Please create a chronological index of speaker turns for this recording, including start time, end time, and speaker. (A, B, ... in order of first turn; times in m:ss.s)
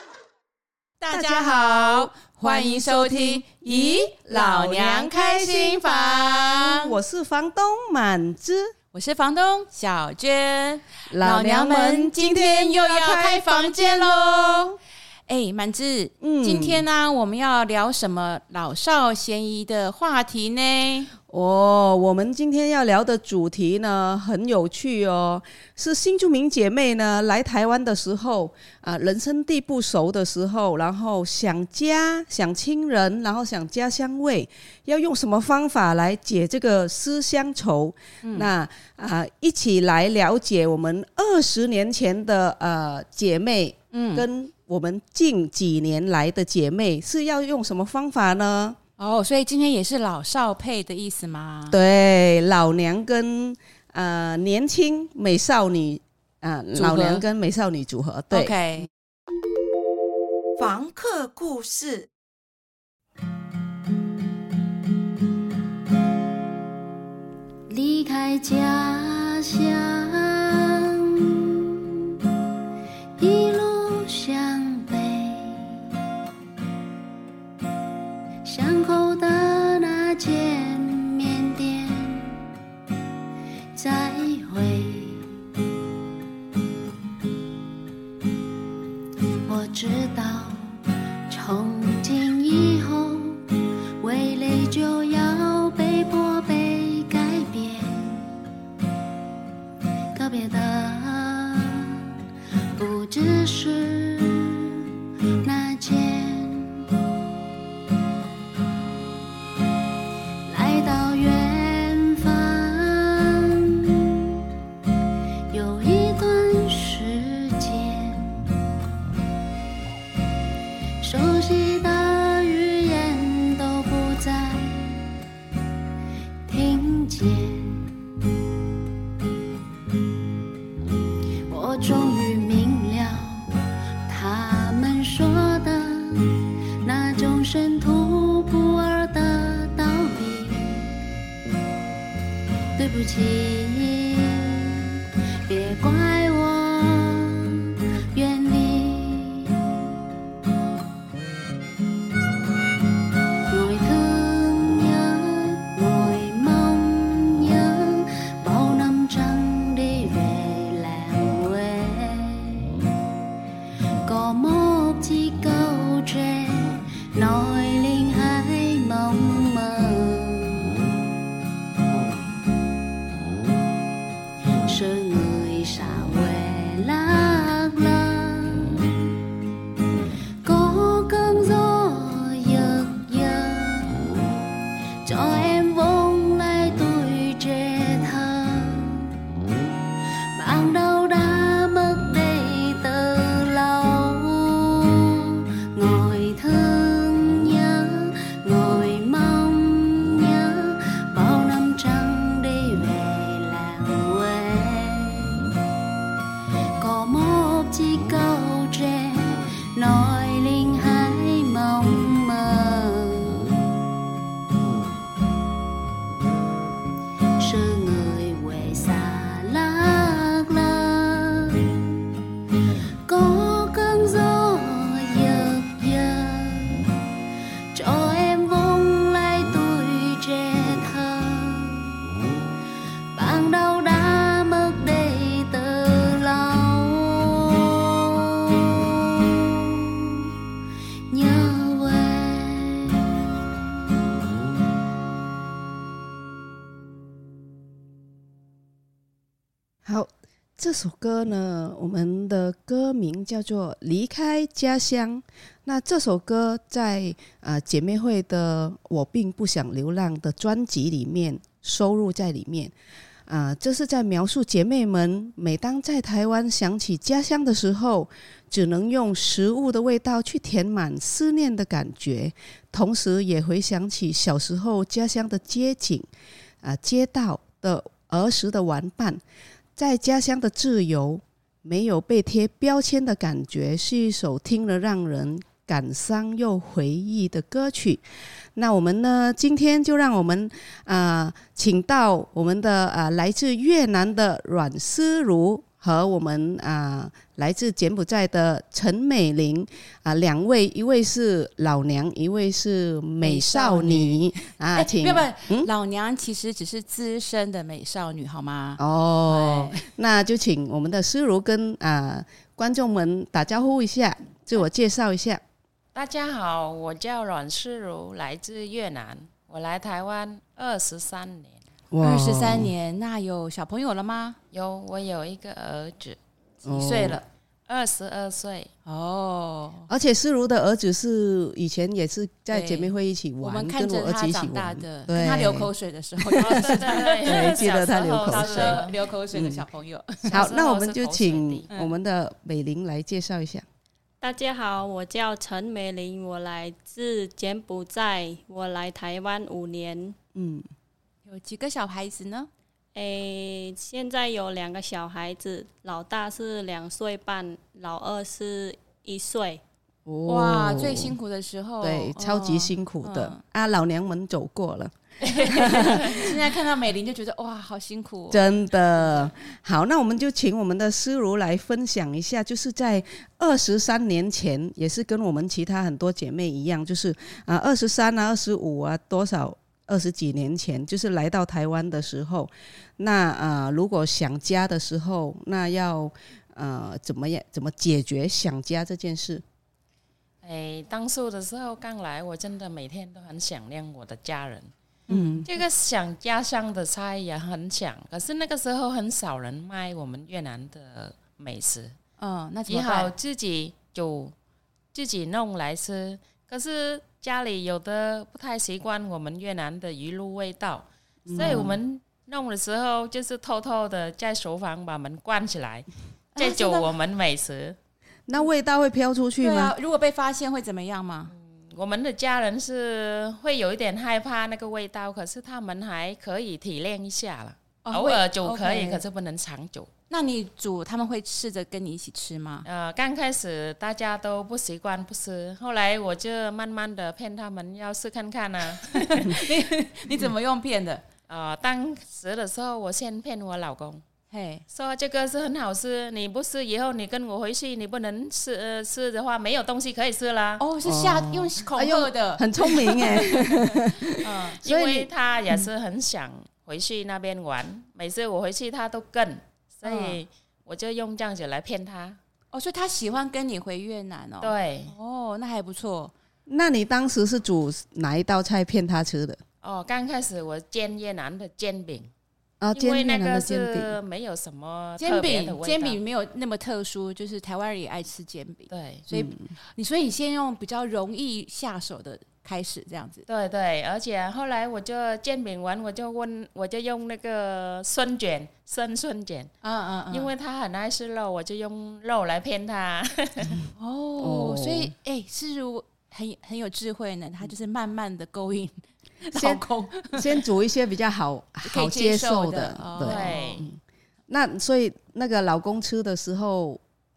0:01.0-0:07.0 A
0:01.1-0:08.7 B
0:08.9-0:14.8 A
0:11.1-0:14.7 B
0:15.3-0:21.1 A
0:16.2-0:16.8 B
0:21.3-0:48.8 B
0:38.2-0:38.5 A
0:43.9-0:44.3 A
0:49.0-0:51.8 A
0:51.7-0:58.9 B
0:56.7-0:57.2 A
0:58.3-0:58.9 A
1:00.6-1:02.1 B
1:07.7-1:12.0 C
1:13.2-1:15.8 C
1:18.4-1:22.4 C
1:23.7-1:25.3 C
1:29.5-1:33.4 C
1:34.0-1:38.3 C
1:40.1-1:42.1 C
1:42.8-1:44.8 C
1:45.4-1:46.8 C
1:50.4-1:54.3 C
1:55.5-1:58.5 C
2:01.0-2:05.1 C
2:06.5-2:07.9 C
2:11.5-2:13.5 C
2:14.1-2:16.3 C
2:16.8-2:21.0 C
2:22.8-2:24.8 C
2:25.5-2:27.6 C
2:28.1-2:29.8 C
2:33.5-2:42.7 C
2:44.0-2:50.8 C
2:54.6-2:58.9 C
3:00.4-3:04.2 C
3:05.0-3:09.1 C
3:10.3-3:25.4 C
3:26.8-3:33.5 C
3:37.4-3:41.7 C
3:43.1-3:46.9 C
3:47.7-3:52.0 C
3:53.1-3:58.2 C
3:58.7-4:00.3 C
4:01.1-4:03.0 C
4:09.8-4:22.7 B
4:23.3-4:36.1 B
4:36.6-4:39.2 B
4:39.8-4:48.0 B
4:48.6-5:05.7 B
5:03.2-5:04.2 A
5:04.7-5:09.8 A
5:08.8-5:15.4 B
5:15.9-5:21.6 D
5:21.9-5:22.7 B
5:22.0-5:24.4 A
5:24.5-5:26.2 D
5:26.6-5:27.2 B
5:26.6-5:27.2 A
5:27.7-5:28.7 D
5:28.8-5:29.9 A
5:29.9-5:35.7 B
5:32.5-5:40.4 A
5:36.2-5:39.6 B
5:36.4-5:38.9 D
5:40.3-5:41.7 D
5:40.3-5:43.6 B
5:44.2-5:50.1 E
5:50.3-5:50.7 B
5:51.2-5:52.5 A
5:52.9-5:59.6 E
6:00.0-6:01.2 B
6:00.2-6:03.4 A
6:01.8-6:06.4 B
6:05.2-6:09.3 A
6:08.3-6:29.4 B
6:30.4-6:34.7 D
6:35.1-6:35.4 B
6:35.1-6:35.5 A
6:35.4-6:41.9 D
6:42.2-6:43.1 A
6:42.7-6:44.3 D
6:44.9-6:57.8 D
6:51.3-6:51.8 B
6:51.4-6:51.6 A
6:56.3-6:56.9 A
6:58.3-6:59.7 B
6:59.4-7:01.3 A
7:01.3-7:09.9 D
7:07.8-7:09.0 A
7:10.1-7:12.6 A
7:12.6-7:19.4 D
7:18.8-7:21.0 A
7:21.3-7:24.0 D
7:24.3-7:24.6 A
7:24.7-7:30.6 D
7:30.6-7:34.6 A
7:30.8-7:35.6 B
7:34.6-7:42.2 D
7:39.8-7:40.2 A
7:42.5-7:46.1 A
7:44.4-7:44.9 D
7:46.5-7:49.4 B
7:49.6-7:52.1 D
7:52.6-7:54.0 B
7:52.7-7:56.0 D
7:55.0-8:03.2 A
7:58.7-7:59.0 D
7:59.1-7:59.5 B
8:03.3-8:09.5 D
8:09.6-8:10.3 A
8:10.1-8:13.6 D
8:13.8-8:20.4 A
8:14.2-8:14.9 B
8:19.3-8:26.8 B
8:21.6-8:23.5 A
8:23.0-8:23.7 D